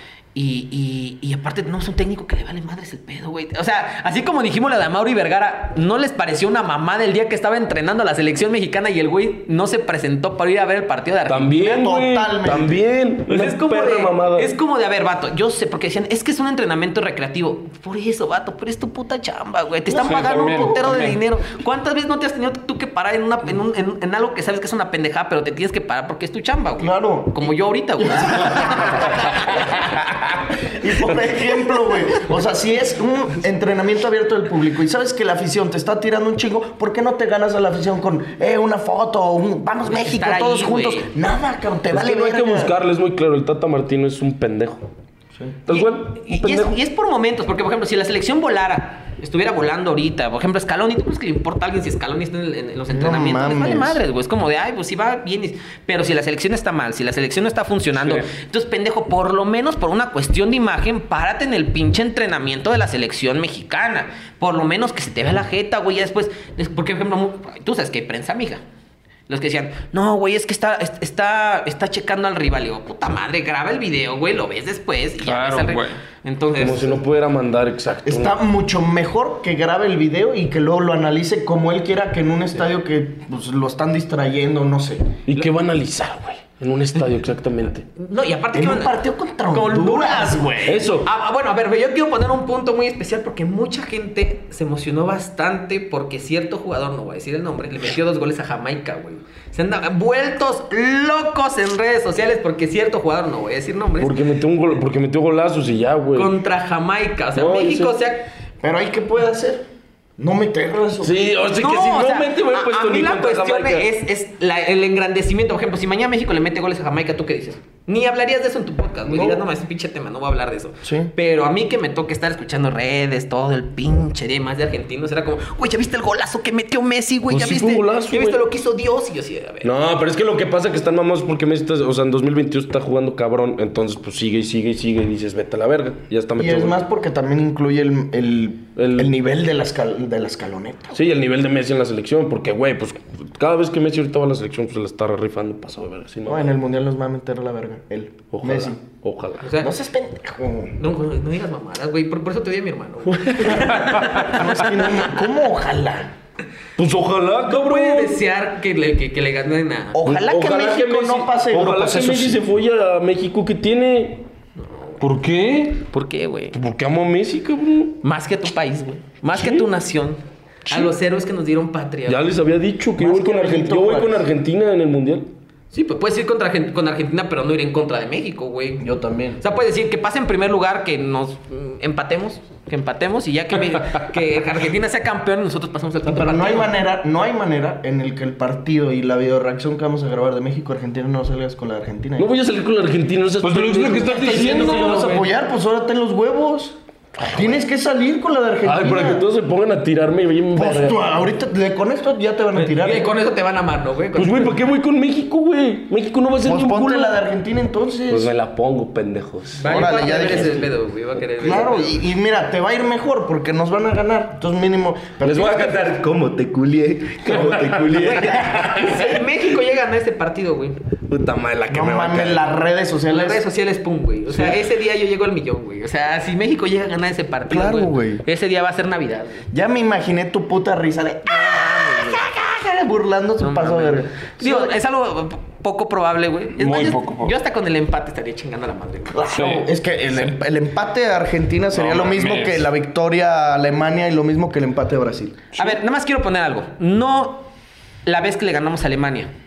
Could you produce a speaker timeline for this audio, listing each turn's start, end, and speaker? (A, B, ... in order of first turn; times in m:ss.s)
0:00.3-0:11.8 A
0:11.3-0:14.5 B
0:11.6-0:12.8 C
0:13.3-0:30.1 A
0:19.9-0:21.2 D
0:26.8-0:42.7 C
0:40.0-0:41.1 A
0:41.9-0:44.9 B
0:45.6-0:46.7 B
0:45.7-1:08.6 A
0:52.9-0:54.0 C
0:57.9-0:58.3 D
1:09.3-1:17.0 A
1:15.2-1:16.0 D
1:16.6-1:18.4 B
1:18.0-1:25.2 C
1:25.2-1:27.8 B
1:28.0-1:29.0 A
1:28.5-1:30.9 C
1:29.5-1:44.2 A
1:30.6-1:31.1 B
1:44.0-1:46.3 B
1:46.1-1:48.3 A
1:47.4-1:48.0 B
1:48.6-1:49.6 C
1:50.2-1:51.1 C
1:51.0-1:53.9 B
1:51.5-2:09.7 A
2:00.8-2:01.1 C
2:07.3-2:08.4 B
2:09.6-2:16.8 B
2:16.4-2:21.0 C
2:18.8-2:19.1 B
2:20.9-2:26.5 B
2:26.3-2:28.8 C
2:28.3-2:29.5 B
2:29.4-2:29.7 A
2:29.6-2:30.8 C
2:30.8-2:35.1 A
2:33.1-2:33.8 B
2:33.6-2:36.1 C
2:36.8-2:38.2 B
2:37.4-2:40.0 A
2:39.9-2:42.4 C
2:40.0-2:44.2 B
2:44.6-2:45.0 A
2:45.0-2:45.8 D
2:45.9-2:46.6 A
2:46.5-2:48.0 B
2:48.0-2:52.2 A
2:49.3-2:49.7 B
2:52.1-2:55.3 B
2:53.0-2:54.2 C
2:55.7-2:58.8 A
2:58.8-2:59.4 C
2:59.4-3:06.7 A
3:06.0-3:12.3 C
3:12.2-3:14.8 B
3:13.4-3:15.2 D
3:14.1-3:16.8 C
3:14.2-3:15.1 A
3:17.2-3:17.6 B
3:17.3-3:19.2 C
3:18.6-3:21.0 B
3:20.5-3:23.1 C
3:22.6-3:24.6 A
3:24.2-3:27.2 B
3:26.4-3:28.3 C
3:28.1-3:29.8 B
3:29.6-3:32.0 A
3:29.6-3:30.7 C
3:31.4-3:38.7 C
3:35.2-3:39.2 B
3:37.9-3:40.8 A
3:41.1-3:42.5 B
3:41.7-3:43.4 C
3:43.1-3:49.5 A
3:44.3-3:44.6 C
3:47.5-3:48.2 C
3:49.5-3:54.8 C
3:51.3-3:52.2 A
3:53.4-3:59.3 A
3:56.6-3:57.3 D
3:59.1-4:05.4 C
3:59.3-3:59.7 D
4:01.7-4:02.7 D
4:05.6-4:07.5 A
4:08.0-4:09.3 A